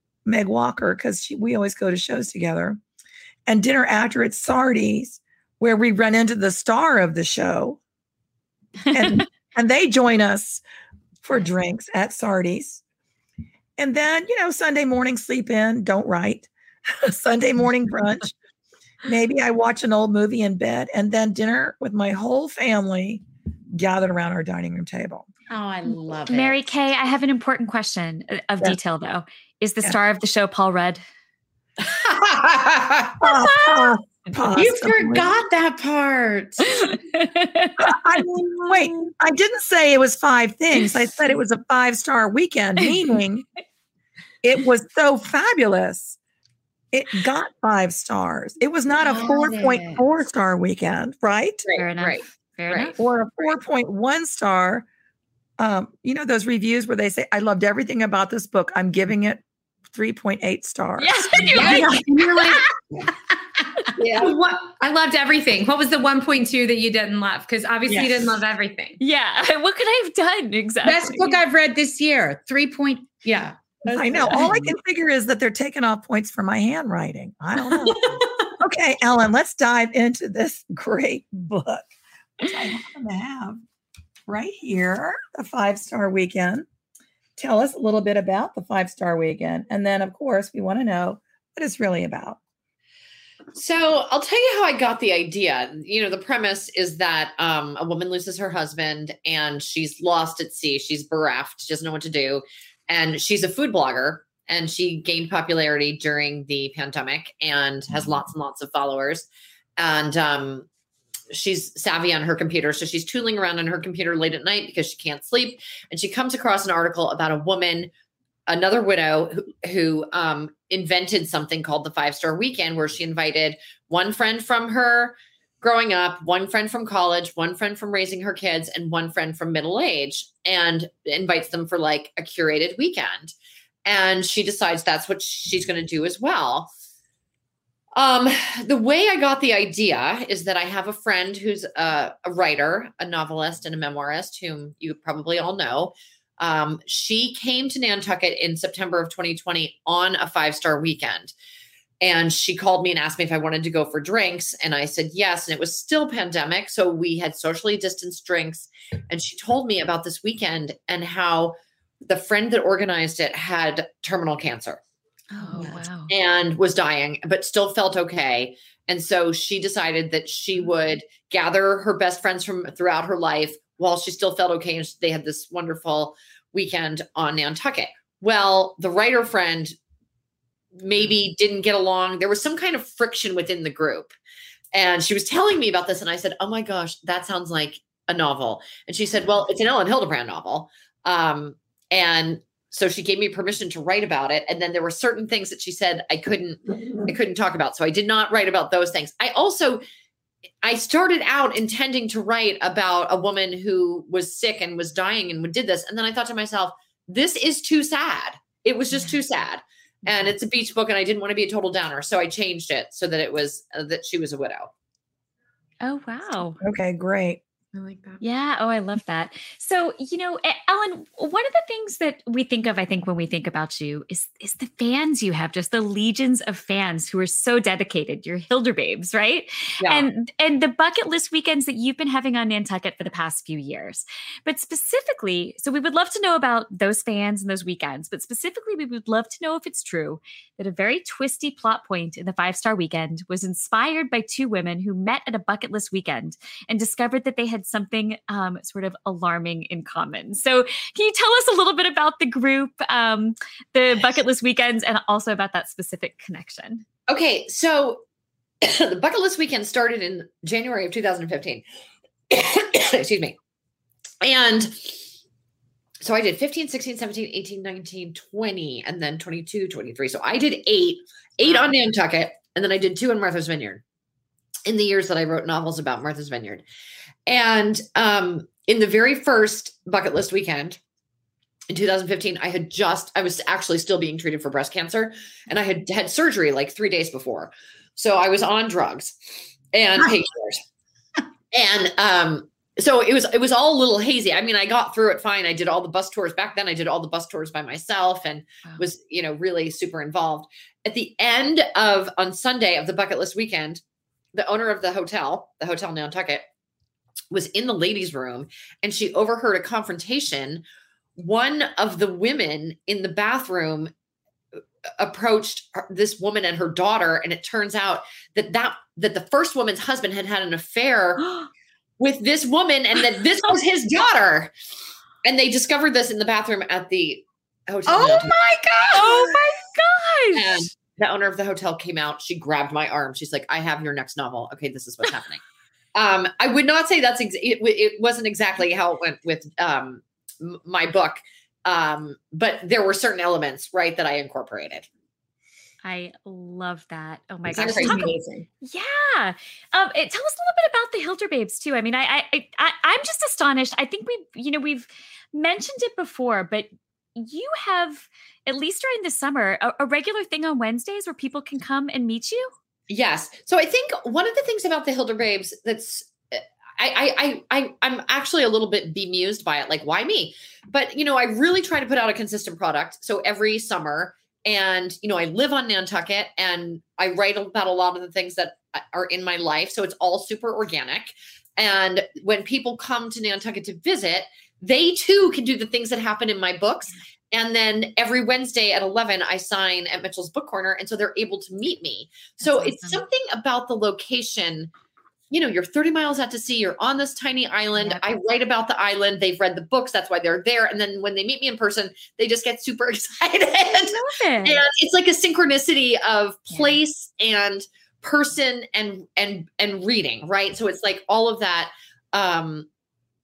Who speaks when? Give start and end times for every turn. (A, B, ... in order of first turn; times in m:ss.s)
0:00.3-0:02.8 A
0:03.5-0:07.8 A
0:08.9-0:10.6 A
0:11.2-0:12.8 A
0:13.8-0:18.3 A
0:19.0-0:25.3 A
0:25.5-0:26.6 B
0:26.3-0:31.0 C
0:32.0-0:33.1 D
0:33.2-0:35.3 A
0:34.5-0:36.9 B
0:36.8-0:37.8 C
0:37.8-0:43.5 A
0:44.4-0:46.2 A
0:46.9-0:51.6 A
0:49.1-0:50.0 B
0:51.7-0:52.9 D
0:51.8-0:53.0 C
0:53.0-0:54.9 A
0:55.6-1:01.7 A
1:01.0-1:01.9 C
1:01.5-1:02.6 E
1:02.1-1:02.5 B
1:04.0-1:04.3 D
1:04.2-1:09.0 E
1:07.9-1:08.3 B
1:09.0-1:11.3 C
1:10.8-1:14.8 B
1:13.9-1:18.1 A
1:17.8-1:18.5 E
1:18.6-1:21.9 A
1:22.4-1:23.6 A
1:24.3-1:26.7 A
1:27.4-1:32.4 A
1:33.5-1:50.7 D
1:51.3-1:57.9 D
1:58.5-2:13.3 D
2:13.8-2:16.7 D
2:18.0-2:31.3 D
2:32.0-2:44.8 D
2:45.3-2:46.1 C
2:45.5-2:45.8 B
2:46.1-2:59.8 D
3:00.8-3:04.1 D
3:04.7-3:19.8 D
3:20.6-3:34.7 D
3:35.8-3:36.6 C
3:36.6-3:37.4 A
3:37.7-3:38.2 E
3:38.2-4:16.8 C
3:49.8-3:50.1 D
4:17.1-4:18.0 D
4:18.6-4:21.6 D
4:22.3-4:23.4 D
4:24.2-4:25.1 D
4:26.0-4:33.8 D
4:34.7-4:36.6 D
4:37.3-4:40.8 D
4:41.7-4:49.2 D
4:49.7-4:50.6 D
4:51.5-5:03.8 D
5:04.3-5:06.4 D
5:07.3-5:10.6 D
5:11.2-5:13.9 D
5:15.0-5:21.3 D
5:22.0-5:24.5 D
5:25.2-5:28.4 D
5:27.9-5:29.0 B
5:28.9-5:30.7 C
5:30.4-5:35.4 D
5:36.0-5:44.9 D
5:45.8-6:02.5 C
5:47.5-5:48.5 E
5:47.6-5:48.2 D
6:02.9-6:34.7 D
6:32.4-6:33.0 C
6:35.3-6:52.7 D
6:37.8-6:38.0 C
6:43.9-6:44.6 C
6:46.5-6:46.8 C